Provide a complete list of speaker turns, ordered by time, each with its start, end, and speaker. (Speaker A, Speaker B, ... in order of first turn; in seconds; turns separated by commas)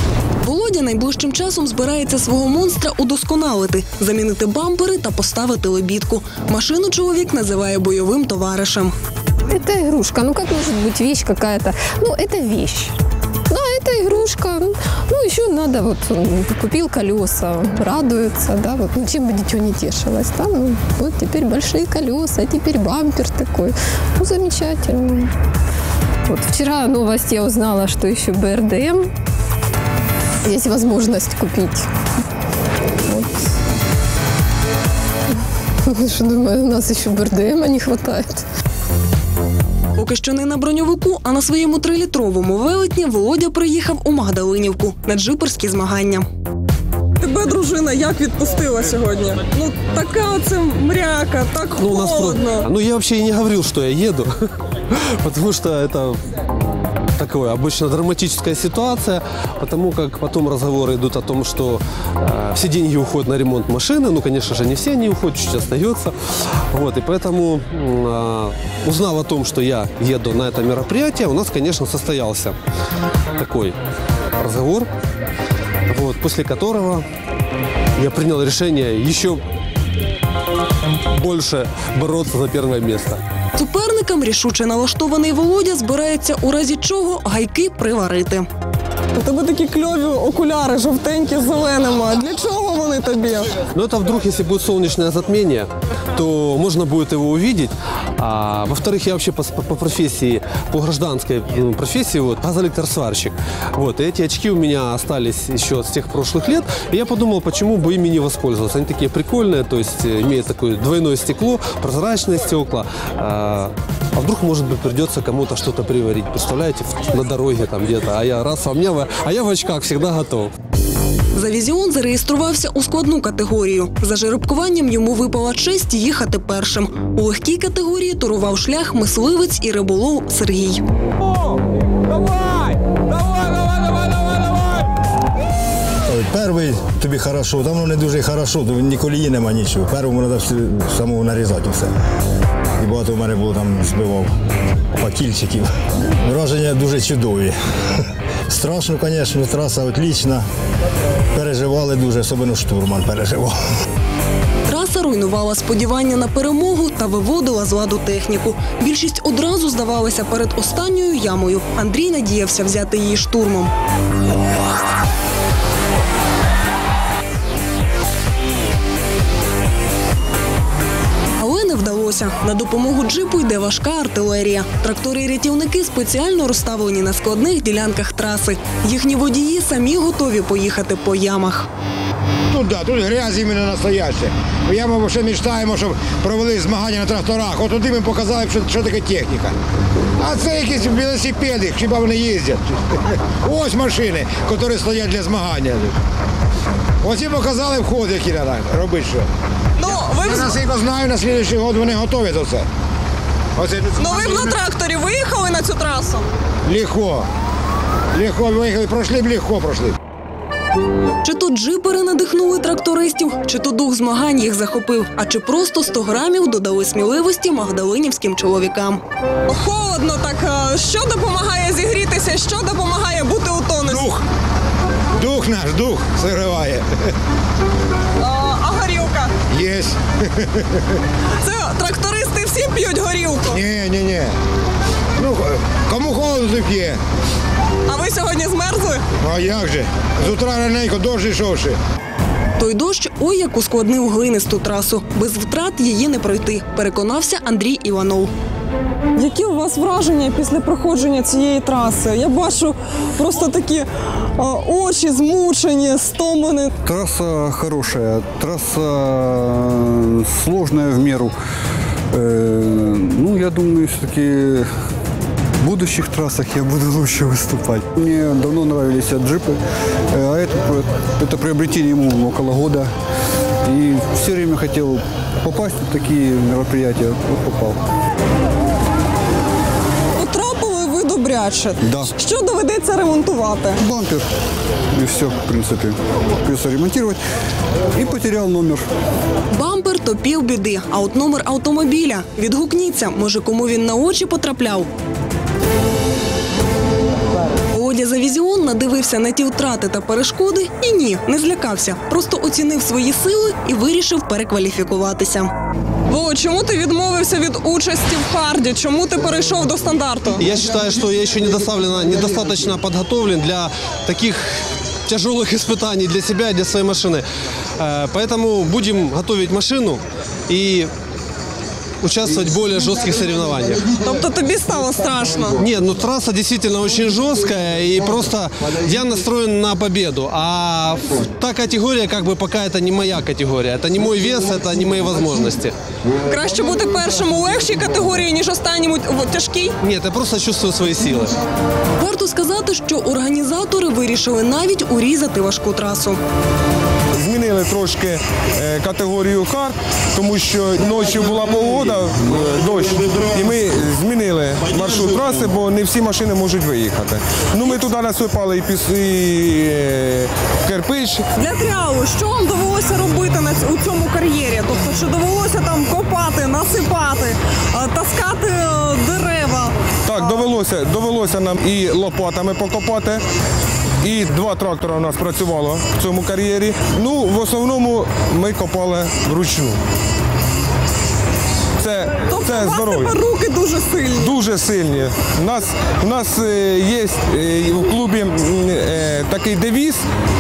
Speaker A: 0.4-8.9, Speaker B: 9.5-12.9, Speaker B: 13.5-25.3, Speaker B: 26.3-29.1, Speaker B: 30.4-31.9, Speaker B: 33.1-33.5, Speaker B: 35.9-38.5, Speaker A: 40.0-46.3, Speaker C: 47.2-52.7, Speaker D: 51.8-56.2, Speaker D: 57.2-72.6, Speaker D: 73.4-73.8, Speaker D: 74.4-74.9, Speaker D: 75.9-77.1, Speaker D: 78.0-79.4, Speaker D: 81.1-83.2, Speaker A: 83.6-88.5, Speaker C: 89.2-93.5, Speaker D: 93.7-120.5, Speaker A: 121.3-130.8, Speaker E: 136.1-141.9, Speaker E: 142.8-144.3, Speaker E: 145.0-145.7, Speaker E: 146.2-147.6, Speaker E: 148.5-150.4, Speaker E: 151.3-153.6, Speaker A: 154.7-163.7, Speaker A: 171.4-181.7, Speaker F: 182.5-189.6, Speaker F: 190.2-195.9, Speaker F: 197.0-199.3, Speaker C: 199.8-200.5, Speaker F: 200.2-202.7, Speaker F: 203.6-204.6, Speaker C: 204.0-206.3, Speaker F: 206.7-207.3, Speaker F: 208.1-210.0, Speaker A: 211.2-219.0, Speaker C: 219.5-224.1, Speaker F: 223.8-224.2, Speaker F: 225.2-226.8, Speaker C: 228.2-229.3, Speaker F: 229.5-230.6, Speaker C: 231.4-233.6, Speaker F: 233.5-234.3, Speaker F: 235.2-237.0, Speaker C: 237.9-239.0, Speaker F: 239.2-241.8, Speaker A: 242.6-248.3, Speaker C: 249.2-256.7, Speaker G: 256.8-261.3, Speaker G: 262.1-264.7, Speaker G: 265.6-269.6, Speaker G: 270.1-272.9, Speaker G: 273.6-277.8, Speaker C: 280.1-283.8, Speaker G: 281.8-282.1, Speaker G: 283.8-284.3, Speaker G: 284.9-287.2, Speaker G: 287.9-288.9, Speaker A: 289.5-294.9, Speaker A: 297.7-305.5, Speaker C: 306.1-310.4, Speaker D: 310.4-317.2, Speaker D: 317.8-320.9, Speaker D: 322.0-323.9, Speaker C: 324.0-325.6, Speaker D: 325.6-335.7, Speaker C: 336.3-339.8, Speaker D: 339.8-341.4, Speaker A: 342.0-346.2, Speaker H: 347.1-361.3, Speaker C: 361.4-370.5, Speaker H: 370.1-373.2, Speaker H: 374.0-379.8, Speaker H: 381.8-383.2, Speaker C: 382.3-384.3, Speaker H: 384.1-390.1